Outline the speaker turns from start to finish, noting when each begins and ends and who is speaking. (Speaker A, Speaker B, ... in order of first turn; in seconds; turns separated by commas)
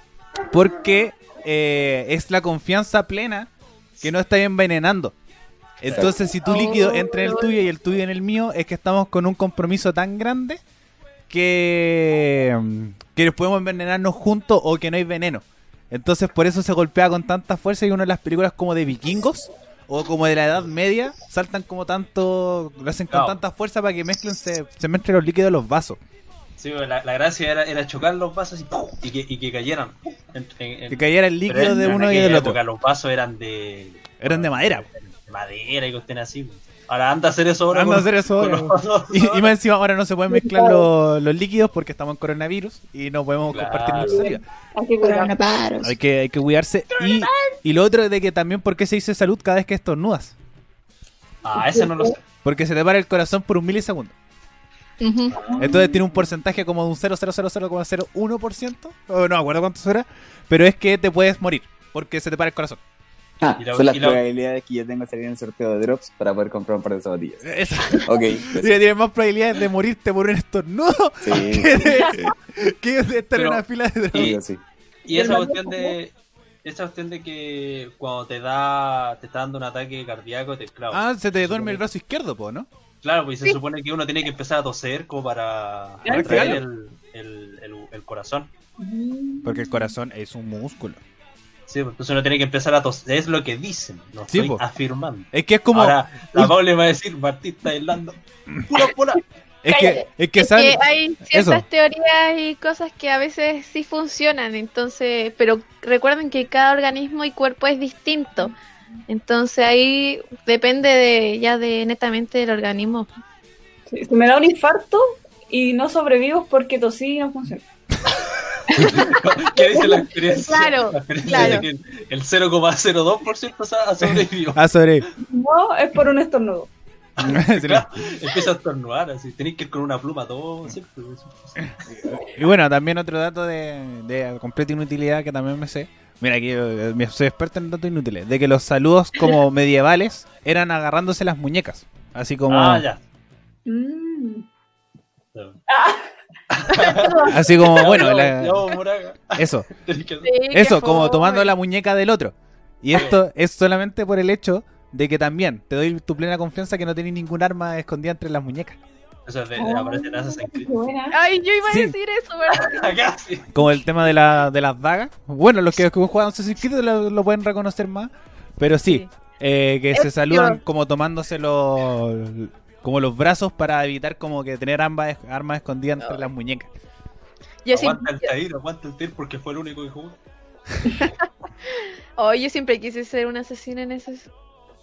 Speaker A: 0.5-3.5, Speaker A: 4.0-5.1, Speaker A: 5.8-10.6, Speaker B: 5.8-6.1, Speaker C: 6.4-7.5, Speaker A: 11.3-26.0, Speaker B: 23.1-23.4, Speaker B: 26.6-39.5, Speaker A: 30.9-32.6, Speaker A: 34.2-34.9, Speaker A: 37.7-44.4, Speaker D: 40.3-40.9, Speaker B: 43.5-44.3, Speaker D: 44.0-45.4, Speaker C: 45.0-45.9, Speaker A: 45.8-50.3, Speaker B: 47.0-47.2, Speaker B: 51.4-52.2, Speaker D: 51.6-52.1, Speaker A: 52.4-54.1, Speaker C: 55.0-55.8, Speaker B: 55.3-55.7, Speaker D: 55.4-55.7, Speaker A: 55.6-62.8, Speaker E: 63.4-68.7, Speaker B: 63.6-64.2, Speaker A: 67.4-74.4, Speaker E: 71.2-71.8, Speaker D: 71.8-72.2, Speaker B: 73.3-73.6, Speaker E: 74.1-74.6, Speaker B: 75.0-81.8, Speaker D: 75.1-76.0, Speaker A: 80.9-82.7, Speaker B: 83.0-88.5, Speaker D: 86.0-86.6, Speaker A: 86.0-86.6, Speaker D: 88.8-89.9, Speaker A: 89.4-91.0, Speaker B: 91.7-98.2, Speaker A: 94.3-94.6, Speaker A: 95.3-96.5, Speaker A: 98.5-98.9, Speaker B: 98.7-99.2, Speaker A: 99.6-101.6, Speaker C: 99.7-108.5, Speaker C: 109.1-113.1, Speaker D: 113.9-117.7, Speaker B: 118.7-124.6, Speaker D: 118.8-120.0, Speaker C: 120.3-121.7, Speaker A: 124.0-125.1, Speaker D: 125.2-126.7, Speaker B: 127.2-131.7, Speaker A: 127.2-127.9, Speaker A: 131.6-142.8, Speaker B: 142.5-143.0, Speaker D: 143.7-144.4, Speaker B: 145.3-145.6, Speaker D: 145.7-146.1, Speaker B: 146.5-150.4, Speaker D: 146.7-147.4, Speaker C: 146.9-147.3, Speaker A: 147.3-148.7, Speaker A: 149.3-149.7, Speaker C: 150.2-151.5, Speaker A: 150.5-158.8, Speaker B: 152.9-153.2, Speaker B: 159.2-160.8, Speaker D: 159.6-161.2, Speaker C: 161.1-163.0, Speaker A: 161.6-161.9, Speaker B: 162.5-163.5, Speaker A: 163.5-176.7, Speaker C: 169.9-170.6, Speaker C: 177.6-178.3, Speaker B: 177.7-180.2, Speaker C: 180.9-184.3